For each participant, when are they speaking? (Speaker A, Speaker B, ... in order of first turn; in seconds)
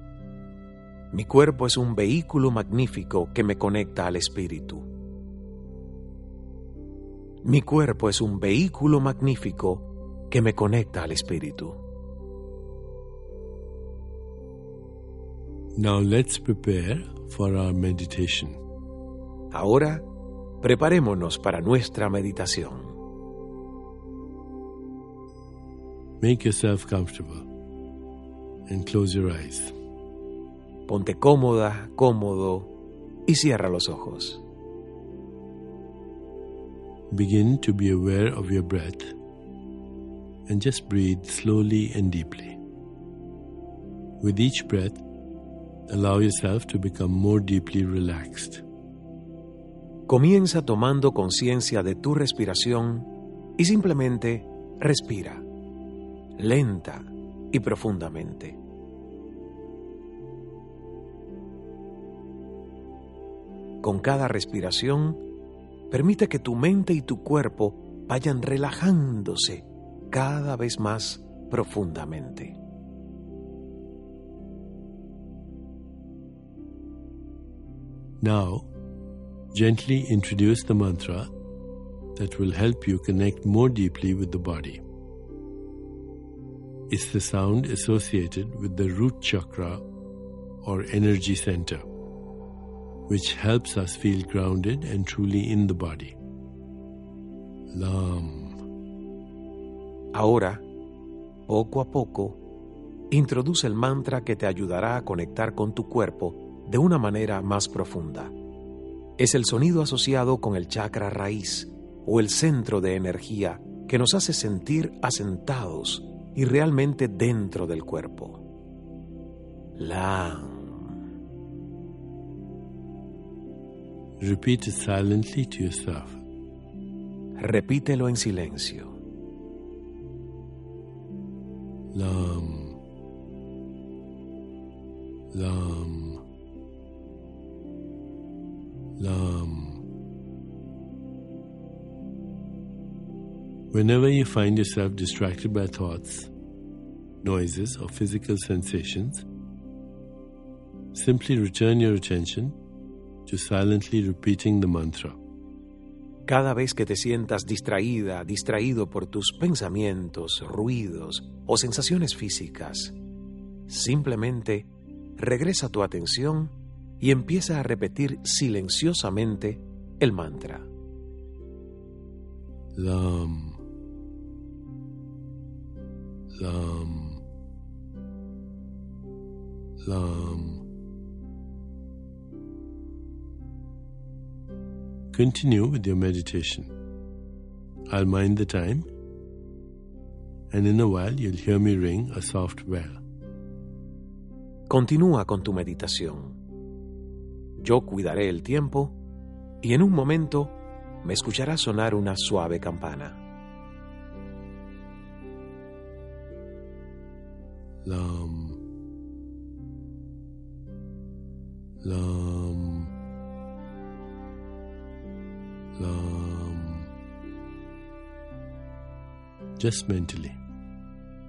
Speaker A: 1.1-4.9, 7.4-11.8, 19.5-20.1, 20.6-23.0, 30.9-32.7, 33.3-34.4, 50.1-55.4, 56.4-58.6, 63.8-65.2, 65.9-72.5, 100.1-100.7, 101.5-102.4, 103.1-108.3, 109.2-118.4, 119.8-121.0, 127.4-128.9, 156.3-162.9, 163.7-170.7, 194.7-196.4, 197.6-199.0, 199.6-203.2
Speaker B: 15.8-18.6, 26.2-27.4, 28.7-29.7, 37.1-39.2, 40.5-42.6, 44.2-45.0, 45.9-48.6, 78.2-78.7, 79.5-81.3, 82.1-84.8, 86.9-89.8, 90.6-91.8, 93.1-96.2, 97.7-98.6, 124.2-126.2, 131.9-132.8, 135.3-136.2, 139.0-139.8, 143.7-146.3, 147.2-149.2, 150.9-152.6, 153.2-155.2, 172.7-173.6, 176.3-177.2, 179.8-180.6, 185.1-186.7, 187.9-188.9, 190.5-193.0, 207.8-208.6, 211.8-212.9, 215.8-216.9, 219.6-220.4